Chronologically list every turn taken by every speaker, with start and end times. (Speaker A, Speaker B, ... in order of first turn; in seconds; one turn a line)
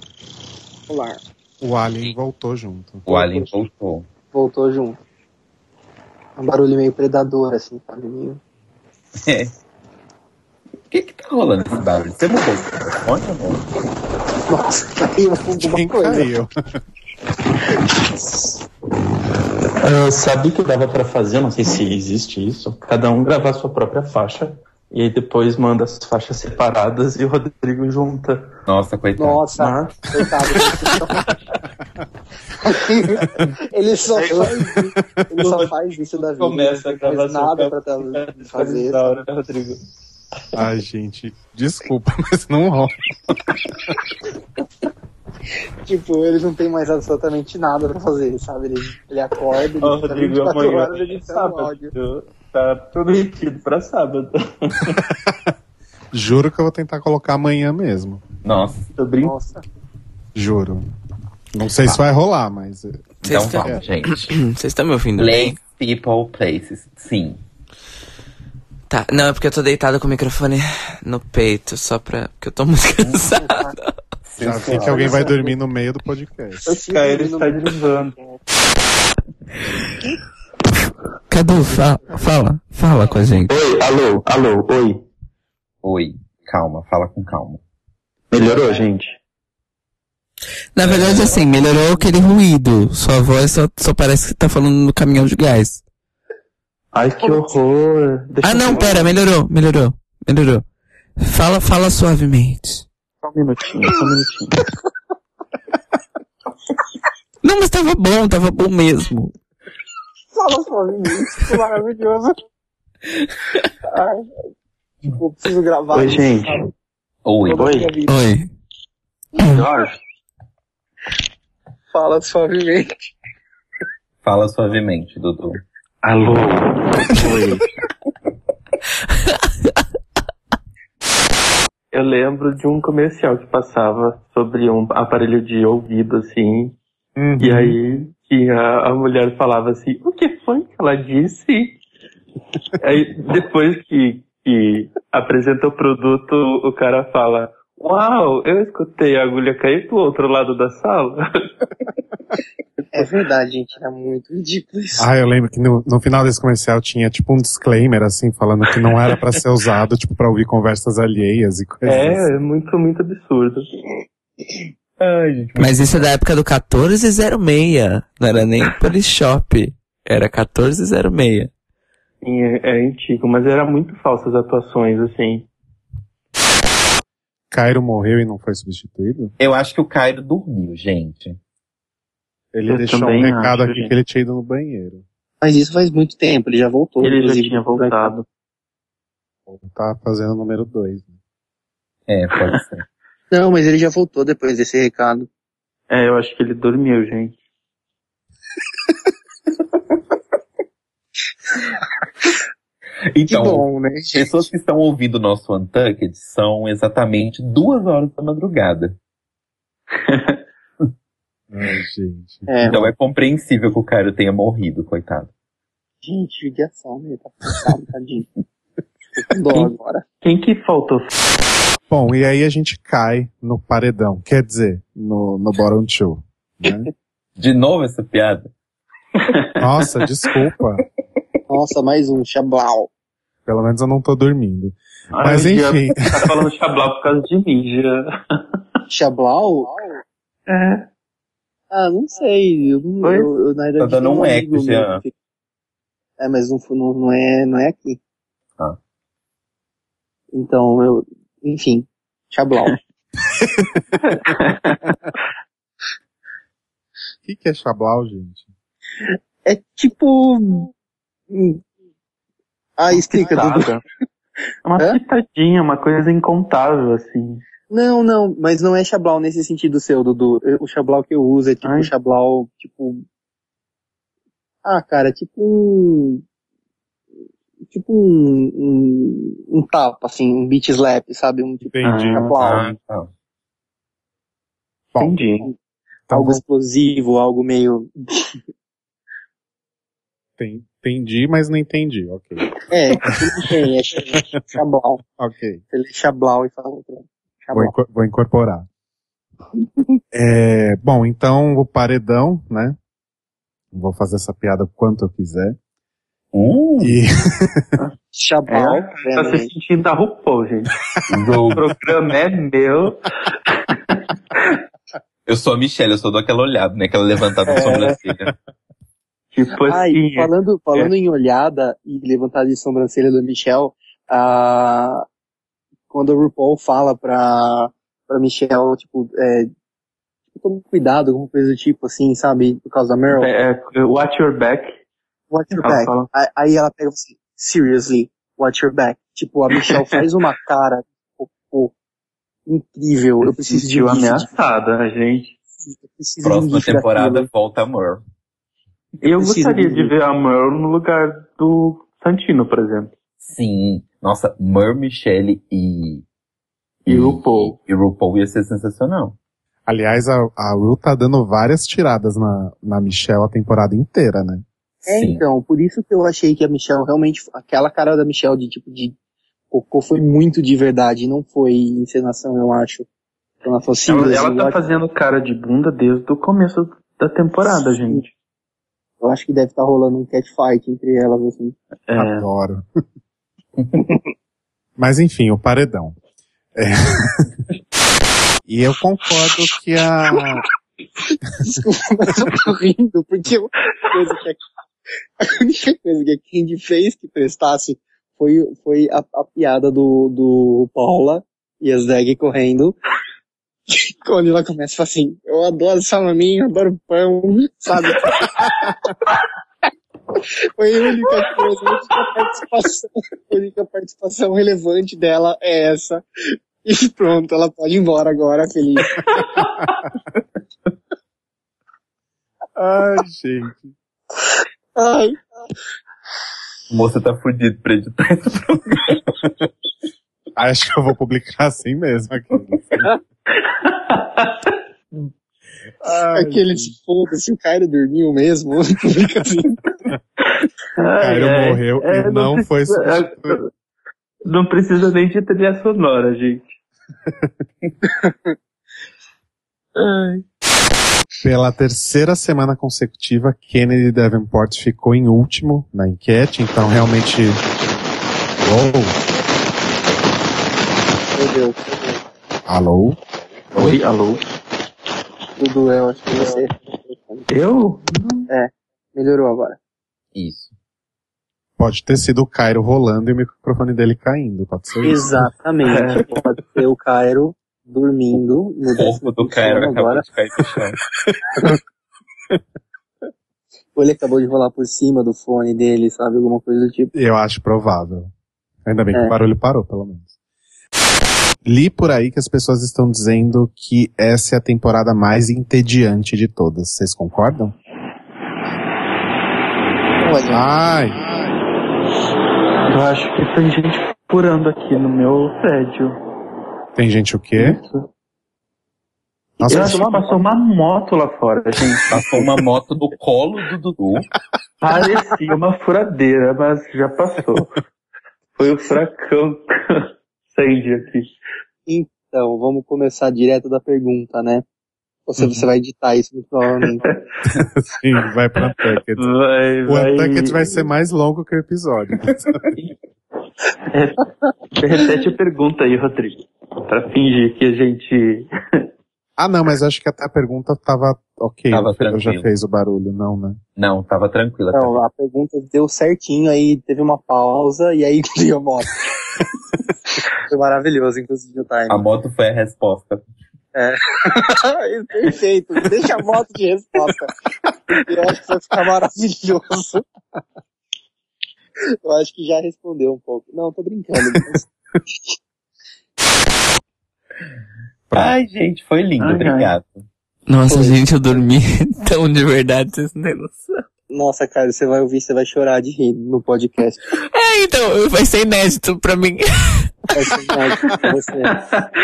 Speaker A: 0.9-1.2
Speaker B: 1.6-3.1
Speaker C: 3.1-4.1
Speaker A: 3.1-3.5
Speaker A: 4.3-5.0
Speaker A: 6.4-8.4
Speaker C: 9.3-9.5
Speaker C: 10.9-13.6
Speaker A: 14.5-16.3
Speaker B: 15.6-16.5
Speaker D: 19.8-28.4
Speaker C: 28.7-29.5
Speaker A: 29.2-31.2
Speaker D: 29.6-30.0
Speaker A: 32.7-39.2
Speaker D: 34.1-34.7
Speaker D: 35.4-39.8
Speaker B: 40.5-42.9
Speaker A: 45.9-51.9
Speaker D: 49.8-55.0
Speaker B: 56.1-58.2
Speaker C: 58.4-58.9
Speaker D: 59.0-59.4
Speaker A: 59.2-59.6
Speaker B: 60.4-60.9
Speaker B: 61.5-63.8
Speaker C: 63.2-64.3
Speaker E: 63.3-65.6
Speaker C: 65.2-67.4
Speaker E: 68.9-73.6
Speaker A: 73.3-73.8
Speaker C: 74.3-75.3
Speaker B: 74.4-76.7
Speaker A: 74.7-75.6
Speaker D: 76.7-78.2
Speaker A: 76.7-78.4
Speaker E: 81.3-83.5
Speaker D: 83.5-85.0
Speaker C: 85.8-87.6
Speaker D: 88.3-89.2
Speaker E: 90.8-95.8
Speaker C: 90.8-91.4
Speaker D: 96.9-99.1
Speaker E: 98.4-100.6
Speaker E: 101.2-102.8
Speaker D: 103.2-104.6
Speaker E: 107.4-109.3
Speaker A: 110.3-112.3
Speaker A: 113.9-114.3
Speaker A: 115.1-116.7
Speaker D: 115.9-116.6
Speaker C: 117.2-117.8
Speaker A: 117.5-118.2
Speaker D: 117.5-117.9
Speaker E: 118.1-118.5
Speaker D: 119.5-119.9
Speaker A: 121.9-123.1
Speaker C: 124.2-125.6
Speaker D: 126.0-127.5
Speaker D: 131.9-136.8
Speaker B: 137.2-137.8
Speaker D: 137.4-141.8
Speaker D: 142.8-151.2
Speaker A: 152.9-155.1
Speaker B: 155.0-162.3
Speaker D: 161.8-163.6
Speaker C: 165.0-166.1
Speaker E: 165.6-171.5
Speaker D: 172.2-175.5
Speaker B: 177.5-179.3
Speaker C: 179.4-181.4
Speaker B: 182.5-185.0
Speaker D: 182.7-183.9
Speaker A: 185.4-188.1
Speaker D: 187.0-188.2
Speaker B: 189.5-191.1
Speaker C: 192.1-192.8
Speaker A: 193.3-195.3
Speaker D: 195.9-197.4
Speaker C: 203.1-209.0
Speaker A: 203.3-204.5
Speaker D: 210.1-210.4
Speaker B: 211.5-212.9
Speaker A: 212.5-212.9
Speaker C: 212.6-215.3
Speaker A: 216.0-218.3
Speaker A: 219.2-220.1
Speaker D: 219.5-221.1
Speaker B: 221.9-226.9
Speaker C: 227.4-228.5
Speaker B: 229.6-230.8
Speaker A: 231.5-232.9
Speaker B: 233.5-236.3
Speaker D: 235.1-238.0
Speaker A: 238.9-240.0
Speaker D: 240.5-240.8
Speaker A: 241.7-245.1
Speaker D: 243.0-243.3
Speaker C: 243.8-245.0
Speaker A: 246.2-248.0
Speaker A: 250.3-252.8
Speaker B: 253.4-254.0
Speaker D: 254.1-254.9
Speaker B: 257.2-258.5
Speaker A: 259.4-260.7
Speaker A: 261.3-261.6
Speaker A: 262.8-263.7
Speaker D: 262.9-263.8
Speaker D: 264.6-267.4
Speaker A: 267.7-273.0
Speaker D: 271.6-271.9
Speaker A: 274.6-276.2
Speaker A: 277.7-282.8
Speaker B: 281.6-282.3
Speaker D: 281.8-282.4
Speaker C: 282.4-283.1
Speaker B: 284.9-285.2
Speaker D: 285.0-285.5
Speaker B: 286.1-286.4
Speaker A: 286.1-288.4
Speaker B: 290.4-292.4
Speaker A: 292.7-295.0
Speaker B: 295.2-295.6
Speaker A: 295.7-297.7
Speaker B: 297.5-298.7
Speaker B: 300.1-302.8
Speaker B: 303.7-305.6
Speaker C: 306.3-307.0
Speaker B: 306.8-307.6
Speaker A: 308.1-309.5
Speaker D: 308.5-310.7
Speaker C: 311.1-311.6
Speaker D: 311.6-313.1
Speaker D: 313.9-314.4
Speaker C: 315.3-318.3
Speaker D: 317.6-317.9
Speaker D: 319.3-320.9
Speaker A: 319.6-325.0
Speaker A: 325.9-329.5
Speaker A: 330.4-333.3
Speaker D: 333.1-334.7
Speaker A: 335.3-341.7
Speaker D: 335.6-336.1
Speaker A: 342.5-344.3
Speaker D: 343.3-345.3
Speaker A: 345.7-347.3
Speaker C: 346.2-348.0
Speaker D: 349.0-352.9
Speaker A: 349.2-349.9
Speaker C: 353.2-356.1
Speaker D: 356.9-357.6
Speaker C: 356.9-359.2
Speaker B: 359.7-364.4
Speaker A: 364.9-368.9
Speaker C: 364.9-365.2
Speaker A: 369.5-372.9
Speaker A: 373.4-374.8
Speaker D: 373.9-378.1
Speaker A: 379.0-381.6
Speaker D: 381.9-382.3
Speaker B: 382.0-382.6
Speaker B: 384.8-386.0
Speaker B: 386.6-387.3
Speaker B: 388.5-390.4
Speaker A: 391.5-394.4
Speaker A: 395.2-402.8
Speaker A: 403.7-408.6
Speaker A: 410.6-416.0
Speaker A: 416.6-419.0
Speaker D: 419.1-419.7
Speaker B: 422.6-423.7
Speaker A: 424.8-425.2
Speaker C: 426.7-429.0
Speaker B: 430.4-432.9
Speaker D: 433.5-434.5
Speaker B: 435.8-436.7
Speaker A: 436.1-439.6
Speaker D: 440.8-443.5
Speaker B: 441.0-443.4
Speaker D: 444.3-446.5
Speaker D: 449.8-450.2
Speaker B: 451.2-457.4
Speaker B: 458.4-459.0
Speaker A: 461.1-462.0
Speaker B: 462.5-463.0
Speaker B: 463.5-463.8
Speaker D: 463.6-464.2
Speaker A: 465.4-467.3
Speaker D: 467.3-467.8
Speaker A: 468.3-469.6
Speaker C: 470.1-470.5
Speaker B: 471.6-475.3
Speaker A: 474.8-480.0
Speaker D: 475.7-476.2
Speaker C: 478.8-480.8
Speaker A: 483.8-486.9
Speaker B: 486.9-488.1
Speaker B: 488.7-490.1
Speaker B: 491.5-497.5
Speaker A: 500.0-500.5
Speaker B: 500.3-501.3
Speaker D: 502.7-506.0
Speaker B: 506.8-507.6
Speaker D: 507.4-507.9
Speaker B: 509.4-509.9
Speaker A: 509.4-510.2
Speaker D: 509.5-512.2
Speaker C: 511.9-514.1
Speaker D: 514.6-517.6
Speaker D: 518.4-521.1
Speaker A: 521.7-524.4
Speaker A: 525.1-526.9
Speaker B: 527.3-529.1
Speaker D: 529.0-530.6
Speaker B: 529.7-532.4
Speaker D: 533.7-534.0
Speaker D: 534.6-538.3
Speaker B: 539.2-543.4
Speaker C: 541.5-542.3
Speaker C: 543.6-544.8
Speaker A: 544.5-548.8
Speaker A: 550.3-551.8
Speaker C: 551.7-553.0
Speaker A: 553.5-557.1
Speaker A: 557.8-559.8
Speaker A: 561.8-564.5
Speaker B: 567.9-568.2
Speaker C: 567.9-569.9
Speaker D: 569.0-569.5
Speaker E: 570.3-573.5
Speaker A: 570.5-571.3
Speaker A: 573.9-576.8
Speaker E: 577.1-579.7
Speaker A: 579.9-581.4